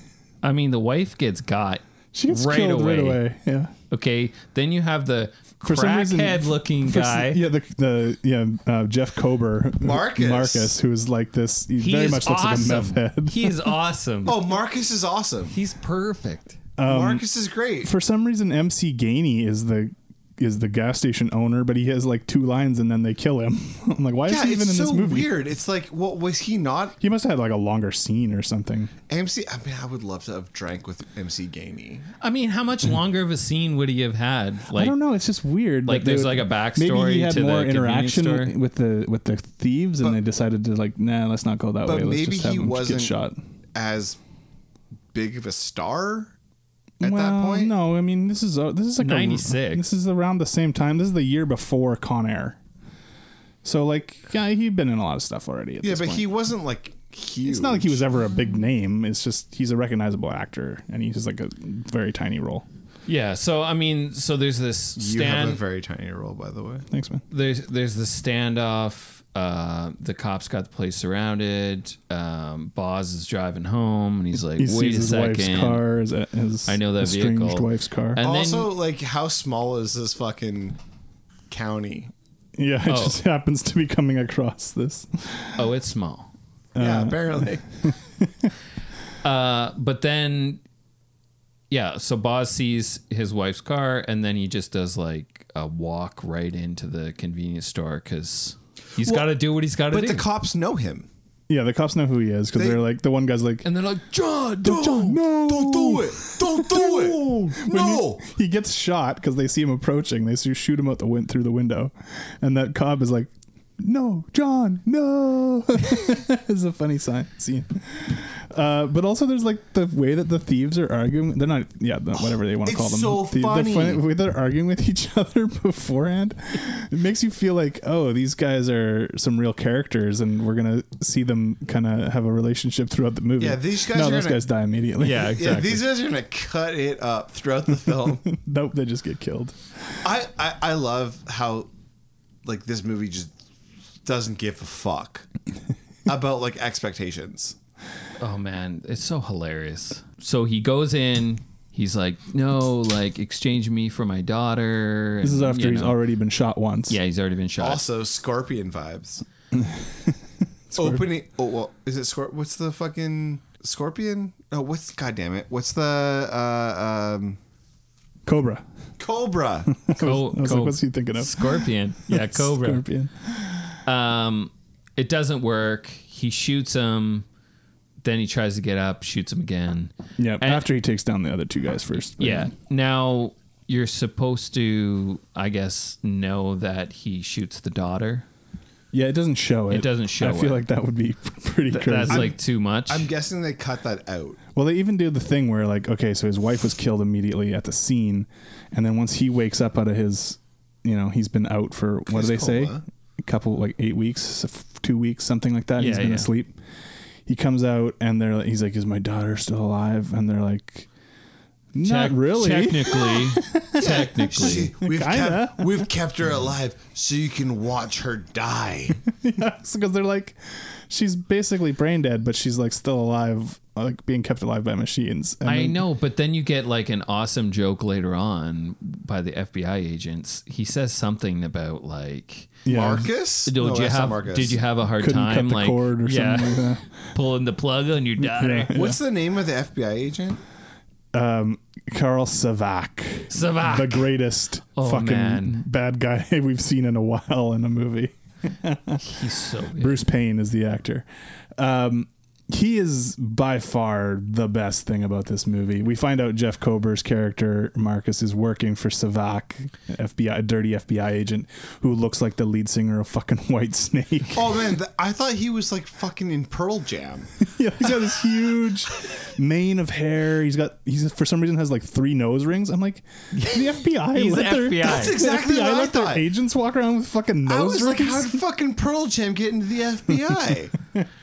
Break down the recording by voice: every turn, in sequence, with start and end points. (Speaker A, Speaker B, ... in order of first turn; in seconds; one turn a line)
Speaker A: 0.4-3.2
Speaker B: 2.1-3.7
Speaker A: 3.9-7.4
Speaker B: 5.6-13.8
Speaker C: 9.8-10.8
Speaker A: 11.8-14.5
Speaker C: 14.2-15.6
Speaker A: 15.5-16.6
Speaker B: 16.8-17.3
Speaker C: 16.8-17.9
Speaker B: 17.8-25.4
Speaker C: 24.3-27.0
Speaker B: 27.0-28.9
Speaker C: 29.1-32.1
Speaker A: 32.2-35.0
Speaker B: 34.7-43.4
Speaker A: 35.9-38.5
Speaker C: 41.8-43.1
Speaker C: 43.8-44.2
Speaker C: 45.1-46.3
Speaker B: 47.0-52.6
Speaker C: 47.0-47.7
Speaker A: 49.0-49.9
Speaker B: 53.6-56.3
Speaker C: 55.8-58.0
Speaker B: 57.4-62.7
Speaker A: 63.1-65.6
Speaker C: 65.0-66.9
Speaker B: 66.9-67.2
Speaker A: 67.3-75.8
Speaker B: 74.5-78.2
Speaker A: 76.7-78.7
Speaker C: 78.2-80.8
Speaker C: 81.5-82.1
Speaker B: 82.6-85.6
Speaker A: 82.9-83.2
Speaker A: 85.6-86.3
Speaker B: 86.8-88.5
Speaker C: 86.8-87.6
Speaker A: 89.2-90.6
Speaker A: 91.7-100.3
Speaker C: 99.0-99.3
Speaker C: 99.9-101.1
Speaker B: 101.5-103.7
Speaker C: 102.5-102.8
Speaker A: 103.6-105.2
Speaker C: 104.6-108.2
Speaker B: 104.6-135.6
Speaker C: 122.2-124.0
Speaker C: 133.4-134.5
Speaker A: 135.0-135.9
Speaker C: 135.2-138.3
Speaker B: 137.8-139.6
Speaker C: 140.0-141.7
Speaker C: 142.4-143.3
Speaker C: 144.0-145.3
Speaker C: 146.1-147.6
Speaker A: 148.2-156.0
Speaker B: 155.2-157.0
Speaker A: 156.9-157.8
Speaker C: 157.6-159.2
Speaker B: 159.5-161.1
Speaker C: 160.8-167.4
Speaker B: 168.3-168.7
Speaker C: 169.0-169.7
Speaker B: 169.7-173.8
Speaker A: 170.0-172.8
Speaker A: 173.8-177.3
Speaker A: 178.0-180.7
Speaker B: 180.2-182.5
Speaker A: 182.2-188.3
Speaker B: 188.9-192.3
Speaker A: 189.7-190.7
Speaker A: 191.7-193.1
Speaker C: 192.1-194.4
Speaker B: 194.6-206.6
Speaker C: 202.1-202.8
Speaker A: 205.8-206.3
Speaker B: 207.3-210.9
Speaker B: 211.7-215.9
Speaker A: 211.8-214.7
Speaker C: 213.8-219.0
Speaker B: 219.1-225.8
Speaker A: 225.4-232.6
Speaker B: 232.7-233.1
Speaker C: 232.7-234.6
Speaker A: 233.5-238.7
Speaker B: 235.0-236.9
Speaker B: 238.2-239.0
Speaker C: 238.7-240.4
Speaker B: 241.1-249.0
Speaker A: 243.3-244.1
Speaker A: 244.8-245.6
Speaker A: 249.0-250.0
Speaker B: 249.8-251.1
Speaker B: 251.6-264.7
Speaker C: 264.3-267.4
Speaker B: 267.5-278.4
Speaker A: 274.1-275.2
Speaker C: 274.8-276.3
Speaker C: 277.4-280.8